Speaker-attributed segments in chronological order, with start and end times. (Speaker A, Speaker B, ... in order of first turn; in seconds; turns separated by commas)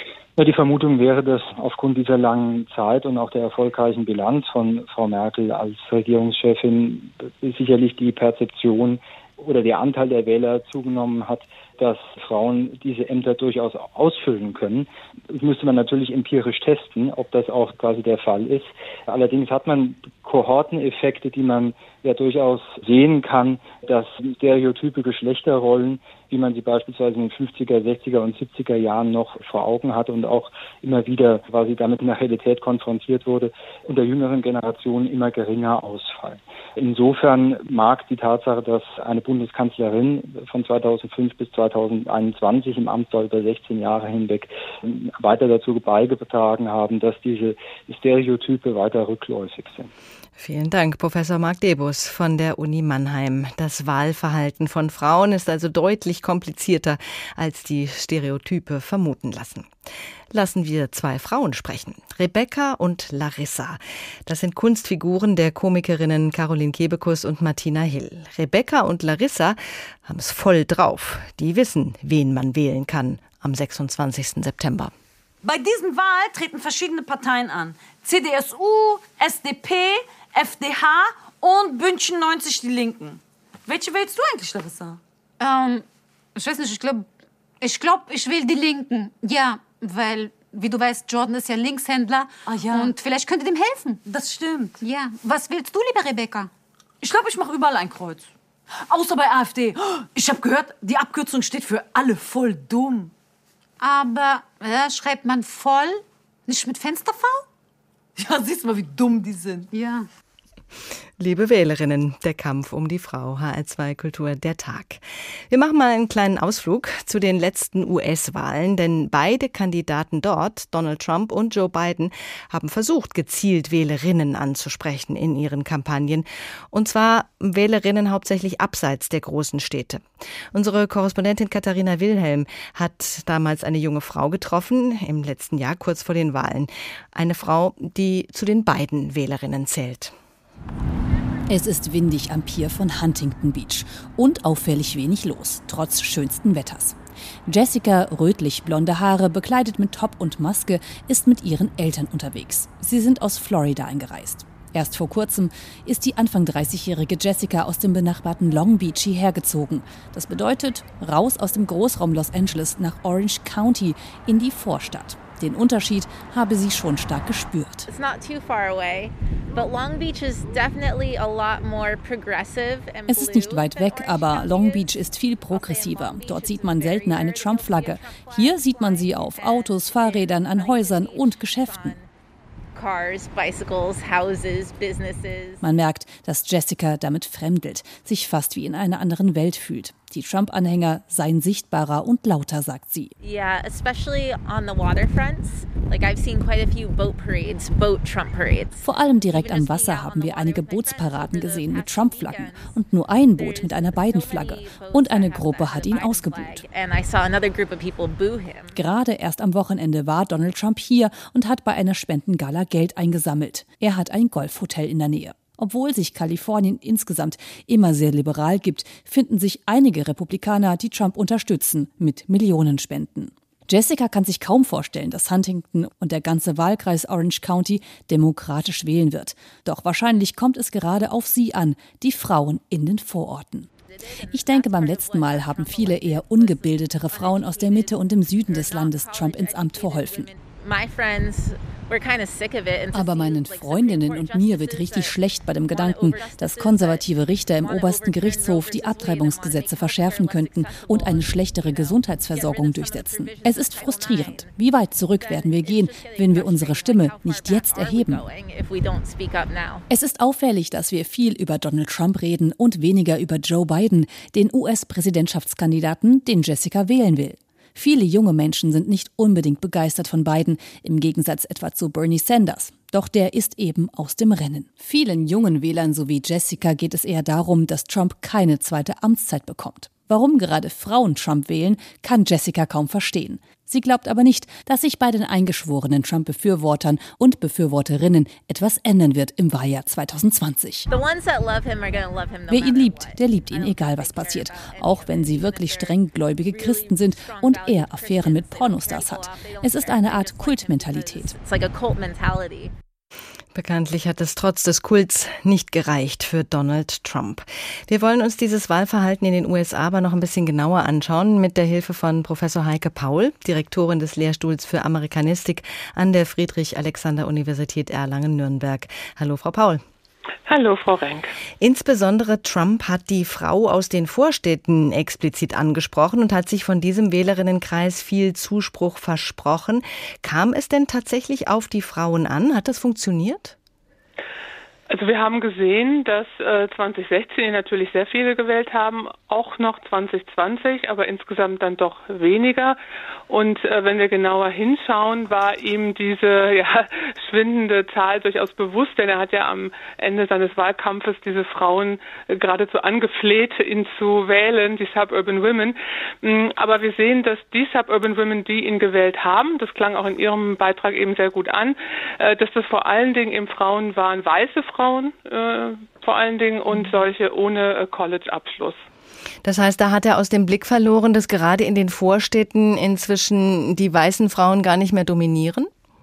Speaker A: 0.4-49.9, Speaker B: 50.4-59.7, Speaker B: 60.3-74.9, Speaker C: 75.4-85.0, Speaker D: 85.4-87.1, Speaker D: 87.6-94.0, Speaker C: 92.5-92.9, Speaker C: 94.0-94.8, Speaker D: 94.8-96.5, Speaker C: 97.0-98.3, Speaker C: 98.9-103.1, Speaker D: 103.8-107.4, Speaker C: 108.2-109.7, Speaker D: 109.7-110.1, Speaker B: 111.2-140.1, Speaker E: 141.5-167.9, Speaker F: 167.9-174.8, Speaker E: 173.1-182.0, Speaker F: 175.5-182.1, Speaker F: 182.8-185.6, Speaker E: 185.6-193.1, Speaker F: 193.2-202.7, Speaker E: 198.8-206.7, Speaker F: 203.3-208.8, Speaker E: 208.7-240.3, Speaker F: 233.8-254.5, Speaker E: 242.9-258.2, Speaker F: 255.1-259.9, Speaker E: 259.9-290.9, Speaker F: 290.9-302.7, Speaker E: 292.5-301.4, Speaker B: 303.5-319.8, Speaker G: 320.5-321.3, Speaker B: 321.6-333.6, Speaker G: 334.9-368.8, Speaker B: 369.4-375.7